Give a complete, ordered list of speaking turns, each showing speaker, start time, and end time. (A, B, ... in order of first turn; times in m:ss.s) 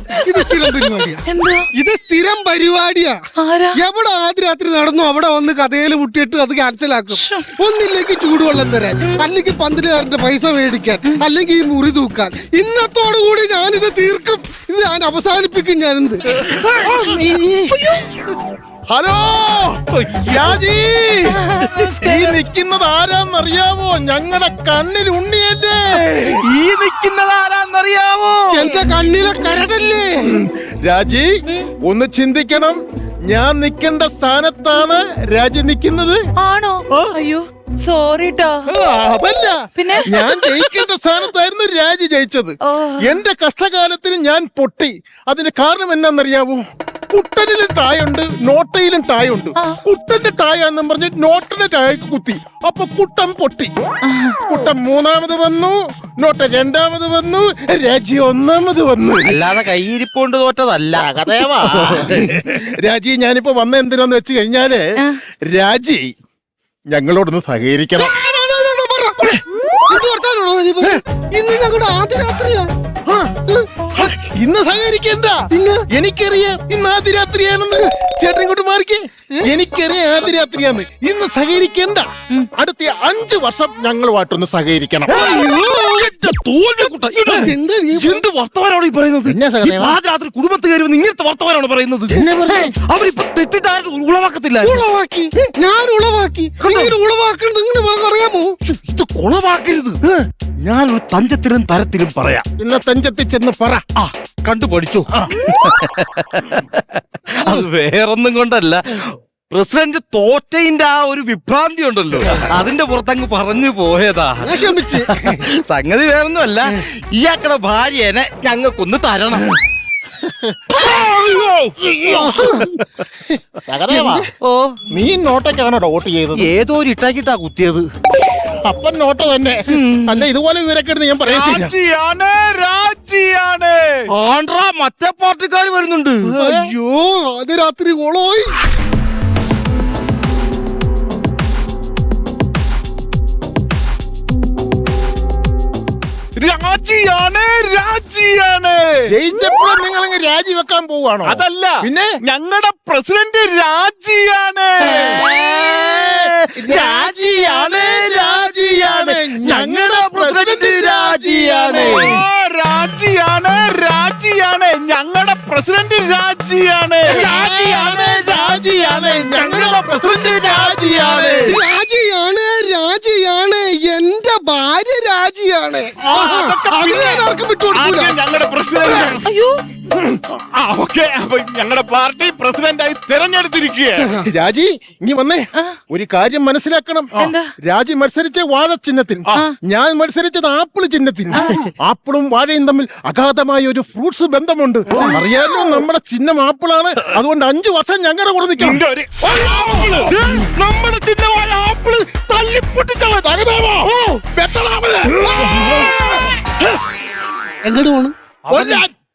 0:00.2-0:01.7 A
0:00.2-0:01.2 B
0:01.7-0:03.2 B
0:03.4-0:03.8 A
0:03.8-0:17.9 B
0:07.1-0:07.4 A
0:16.4-0:16.8 C
0:16.8-0:18.0 A
0:18.9-0:21.4 D
0:19.9-0:20.6 C
0:21.3-0:22.4 A
0:22.0-0:26.4 D
0:25.9-0:28.7 C
0:28.5-0:30.3 B
0:30.3-0:36.2 D
0:36.4-0:38.6 A
0:38.7-0:53.7 D
0:39.8-0:40.7 A
0:42.6-0:43.2 A
0:54.0-0:54.3 A
0:54.4-0:59.5 D
0:59.2-1:02.3 C
1:00.9-1:06.1 D
1:06.9-1:08.1 D
1:08.0-1:12.7 B
1:13.1-1:13.4 D
1:13.9-1:25.3 D
1:15.5-1:15.8 B
1:25.1-1:34.8 C
1:25.2-1:26.1 B
1:27.3-1:28.2 B
1:29.2-1:30.0 D
1:32.1-1:32.7 D
1:34.6-1:38.5 B
1:36.6-1:37.0 C
1:38.6-1:40.0 C
1:40.6-1:42.4 C
1:42.6-1:43.8 D
1:44.0-1:59.6 C
1:54.4-1:55.5 B
2:00.7-2:02.3 C
2:01.9-2:02.7 D
2:02.3-2:02.6 B
2:03.3-2:04.3 B
2:03.7-2:04.2 D
2:04.4-2:04.8 C
2:04.9-2:06.5 D
2:06.4-2:07.8 C
2:08.6-2:11.7 D
2:09.7-2:10.3 C
2:11.3-2:14.1 E
2:14.1-2:16.4 C
2:16.3-2:16.7 D
2:16.4-2:18.5 B
2:26.4-2:29.0 E
2:29.1-2:32.2 D
2:31.2-2:35.2 E
2:34.8-2:42.1 C
2:36.5-2:42.2 D
2:41.7-2:47.2 E
2:47.1-2:51.6 D
2:47.1-2:51.5 C
2:51.4-2:58.2 B
2:56.0-2:59.2 E
2:59.2-2:59.5 A
2:59.9-3:00.2 D
3:00.3-3:04.1 E
3:04.0-3:04.3 B
3:04.2-3:18.8 D
3:07.2-3:07.5 A
3:18.6-3:20.1 E
3:19.6-3:23.2 C
3:23.1-3:25.9 D
3:23.8-3:24.2 C
3:25.3-3:26.2 C
3:27.6-3:28.1 B
3:28.5-3:28.8 C
3:28.5-3:28.9 D